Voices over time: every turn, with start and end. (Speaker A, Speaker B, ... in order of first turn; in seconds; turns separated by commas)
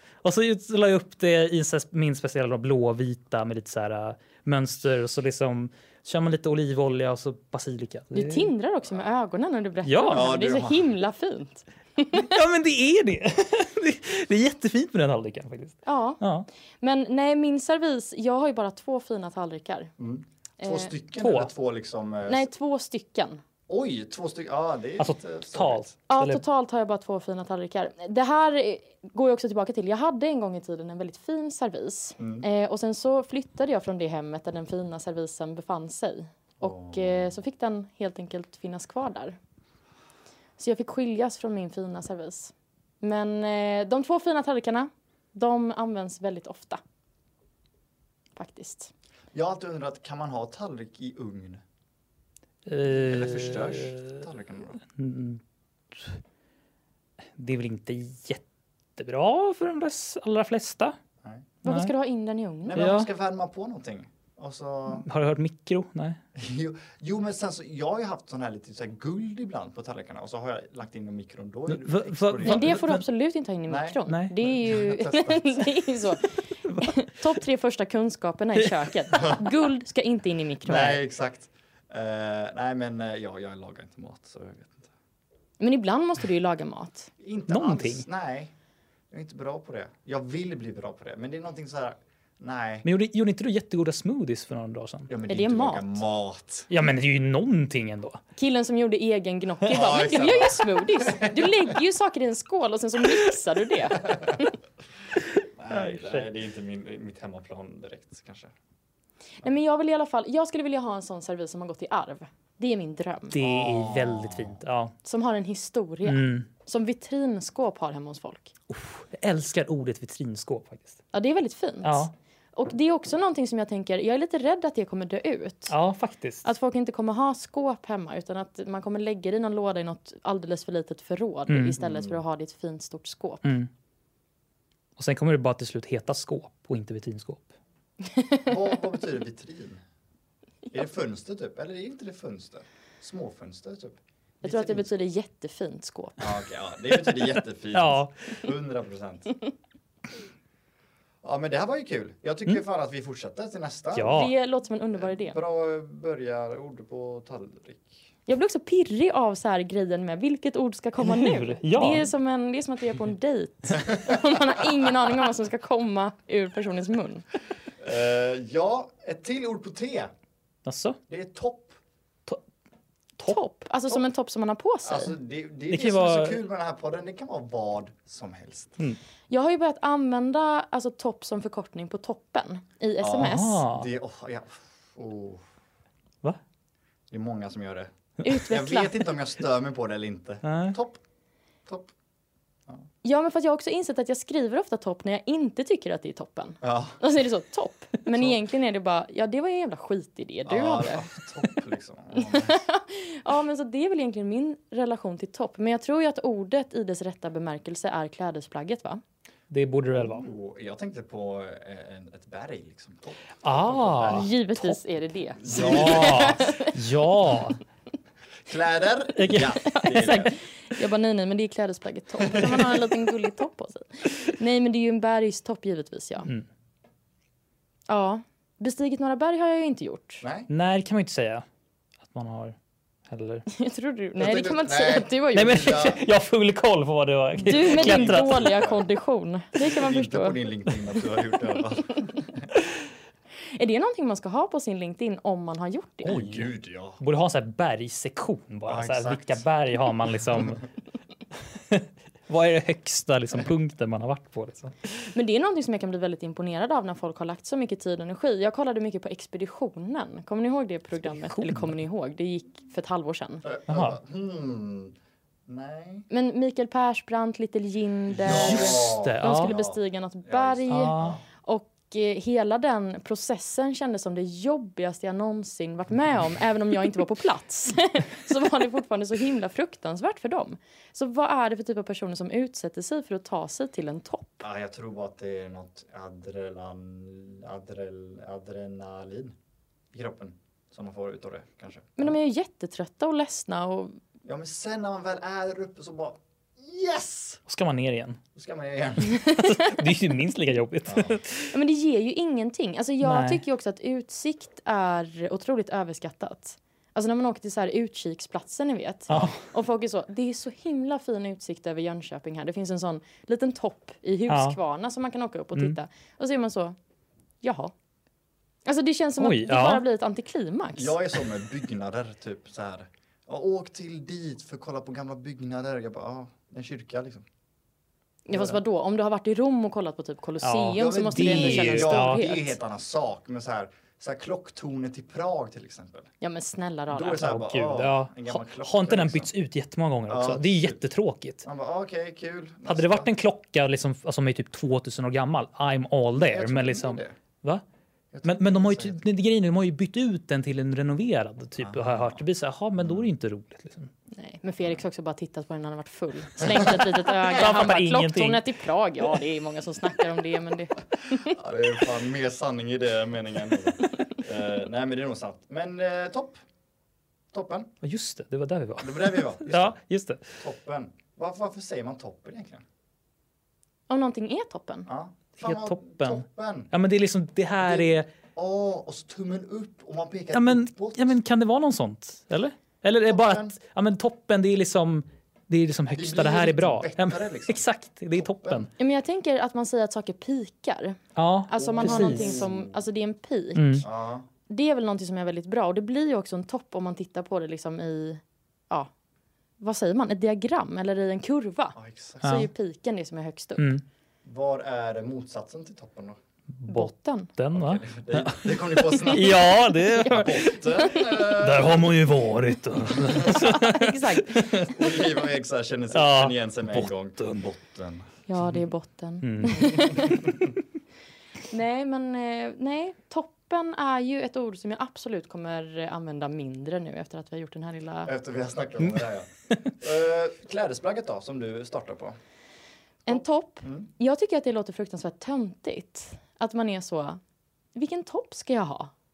Speaker A: 0.2-8.5, Speaker B: 8.1-12.4, Speaker A: 9.8-10.3, Speaker C: 10.1-10.8, Speaker A: 12.1-16.5, Speaker B: 15.8-16.2, Speaker B: 16.8-19.9, Speaker C: 20.0-22.5, Speaker B: 20.6-20.9, Speaker A: 21.2-21.5, Speaker B: 22.3-23.4, Speaker C: 23.7-25.9, Speaker A: 25.0-26.4, Speaker B: 26.1-39.4, Speaker C: 32.2-32.5, Speaker C: 36.6-37.4, Speaker B: 40.6-46.8, Speaker B: 48.4-48.9, Speaker C: 49.3-51.6, Speaker A: 52.6-54.2, Speaker C: 52.8-54.8, Speaker A: 54.9-55.4, Speaker A: 55.9-56.2, Speaker A: 57.4-58.4, Speaker A: 59.0-61.0, Speaker B: 61.6-62.9, Speaker A: 61.6-61.9, Speaker C: 62.6-65.0, Speaker A: 62.8-63.1, Speaker A: 64.9-66.2, Speaker C: 66.3-72.9, Speaker A: 71.7-73.0, Speaker B: 72.4-81.0, Speaker C: 73.7-75.6, Speaker A: 74.1-74.3, Speaker A: 76.7-76.9, Speaker A: 78.6-79.0, Speaker C: 79.1-79.4, Speaker C: 80.7-84.9, Speaker B: 85.6-87.1, Speaker C: 87.2-88.5, Speaker A: 87.5-88.1, Speaker C: 89.1-92.9, Speaker A: 92.8-95.1, Speaker C: 95.1-96.7, Speaker B: 95.3-96.0, Speaker A: 96.7-98.2, Speaker B: 98.4-104.5, Speaker C: 99.7-101.6, Speaker C: 104.0-104.4, Speaker C: 105.5-108.5, Speaker A: 105.7-106.3, Speaker B: 109.4-113.4, Speaker A: 113.3-115.0, Speaker C: 113.4-114.6, Speaker B: 115.0-118.5, Speaker A: 116.0-116.5, Speaker A: 118.7-121.0, Speaker B: 121.1-125.8, Speaker A: 121.8-122.1, Speaker A: 125.7-126.5, Speaker B: 126.4-133.5, Speaker A: 131.5-131.8, Speaker C: 131.8-132.2, Speaker A: 133.4-133.7, Speaker A: 135.0-137.5, Speaker B: 138.1-138.5, Speaker C: 138.4-139.8, Speaker C: 140.7-144.9, Speaker B: 144.4-146.2, Speaker C: 146.2-149.4, Speaker A: 147.1-148.4, Speaker C: 151.2-154.3, Speaker A: 154.0-154.3, Speaker B: 154.1-155.4, Speaker C: 155.0-158.1, Speaker B: 158.3-167.2, Speaker A: 161.0-162.1, Speaker C: 163.8-164.2, Speaker C: 167.8-170.1, Speaker A: 170.7-171.0, Speaker C: 171.1-171.8, Speaker B: 173.3-175.2, Speaker C: 174.8-178.8, Speaker A: 175.7-176.4, Speaker B: 179.3-183.6, Speaker C: 183.0-185.4, Speaker A: 183.2-183.9, Speaker C: 187.1-191.0, Speaker B: 188.2-189.1, Speaker A: 190.4-190.8, Speaker C: 191.7-191.9, Speaker B: 193.0-201.2, Speaker C: 196.6-197.0, Speaker C: 200.5-202.6, Speaker B: 202.2-209.0, Speaker A: 209.5-210.3, Speaker C: 209.9-214.3, Speaker A: 213.4-214.8, Speaker B: 214.0-216.9, Speaker C: 215.4-216.5, Speaker A: 215.5-217.6, Speaker C: 218.5-220.4, Speaker A: 219.2-220.1, Speaker B: 219.6-226.3, Speaker C: 222.2-222.8, Speaker B: 227.9-230.2, Speaker C: 230.2-230.5, Speaker A: 230.5-231.4, Speaker A: 232.0-232.6, Speaker A: 233.1-233.5, Speaker B: 233.5-235.9, Speaker C: 234.2-236.0, Speaker A: 235.3-238.6, Speaker C: 237.4-238.8, Speaker B: 237.4-240.4, Speaker C: 239.6-242.5, Speaker B: 241.6-242.1, Speaker B: 243.5-246.2, Speaker A: 246.0-250.6, Speaker C: 246.1-247.0, Speaker C: 248.7-249.4, Speaker A: 251.6-254.8, Speaker B: 255.0-263.4, Speaker A: 261.2-261.8, Speaker C: 263.4-264.9, Speaker A: 263.7-264.0, Speaker C: 265.5-266.1, Speaker B: 266.1-284.4, Speaker C: 268.1-271.2, Speaker A: 268.2-269.5, Speaker A: 270.7-271.2, Speaker C: 284.4-289.4, Speaker C: 289.9-292.1, Speaker B: 292.0-294.0, Speaker C: 294.2-297.4, Speaker A: 297.5-298.2, Speaker C: 298.4-299.3, Speaker B: 299.1-299.8, Speaker A: 299.4-301.6, Speaker C: 300.9-301.2, Speaker B: 301.5-316.8, Speaker A: 303.0-303.4, Speaker A: 309.1-309.4, Speaker A: 314.3-314.6, Speaker B: 317.4-317.7, Speaker B: 318.7-320.9, Speaker A: 319.2-319.9, Speaker C: 320.8-327.2, Speaker B: 328.3-332.6, Speaker C: 328.3-328.6, Speaker A: 330.4-332.3, Speaker C: 330.8-336.1, Speaker B: 336.2-337.3, Speaker C: 336.9-339.3, Speaker A: 337.1-341.4, Speaker C: 340.1-340.8, Speaker C: 341.4-343.1, Speaker A: 342.7-347.6, Speaker C: 346.1-347.1, Speaker C: 348.1-349.0, Speaker A: 348.2-353.9, Speaker C: 351.6-352.2, Speaker C: 352.8-353.1, Speaker B: 354.1-361.4, Speaker A: 356.7-358.4, Speaker C: 361.1-366.4, Speaker C: 367.3-367.7, Speaker A: 367.8-370.3, Speaker C: 368.8-369.8, Speaker C: 370.4-372.6, Speaker B: 373.9-374.9, Speaker C: 374.9-376.7, Speaker A: 375.4-378.1, Speaker C: 377.6-381.2, Speaker A: 380.3-388.7, Speaker C: 383.1-383.6, Speaker C: 385.9-387.6, Speaker C: 388.2-388.7, Speaker B: 388.8-393.9, Speaker A: 391.2-392.5, Speaker C: 391.6-392.8, Speaker A: 393.6-393.9, Speaker C: 393.8-394.3, Speaker B: 394.5-398.9, Speaker B: 399.6-403.7, Speaker C: 401.8-402.4, Speaker A: 402.2-402.5, Speaker A: 403.6-403.8, Speaker C: 404.2-406.2, Speaker A: 406.5-410.5, Speaker B: 406.7-407.3, Speaker C: 407.5-412.3, Speaker B: 409.1-411.2, Speaker A: 411.2-414.7, Speaker C: 412.9-413.5, Speaker B: 413.1-414.7, Speaker C: 414.6-418.1, Speaker A: 415.9-417.4, Speaker B: 418.3-420.3, Speaker A: 419.2-420.0, Speaker C: 420.1-420.4, Speaker B: 421.5-428.1, Speaker C: 428.1-432.2, Speaker B: 433.1-437.2, Speaker C: 433.1-433.9, Speaker B: 437.8-438.9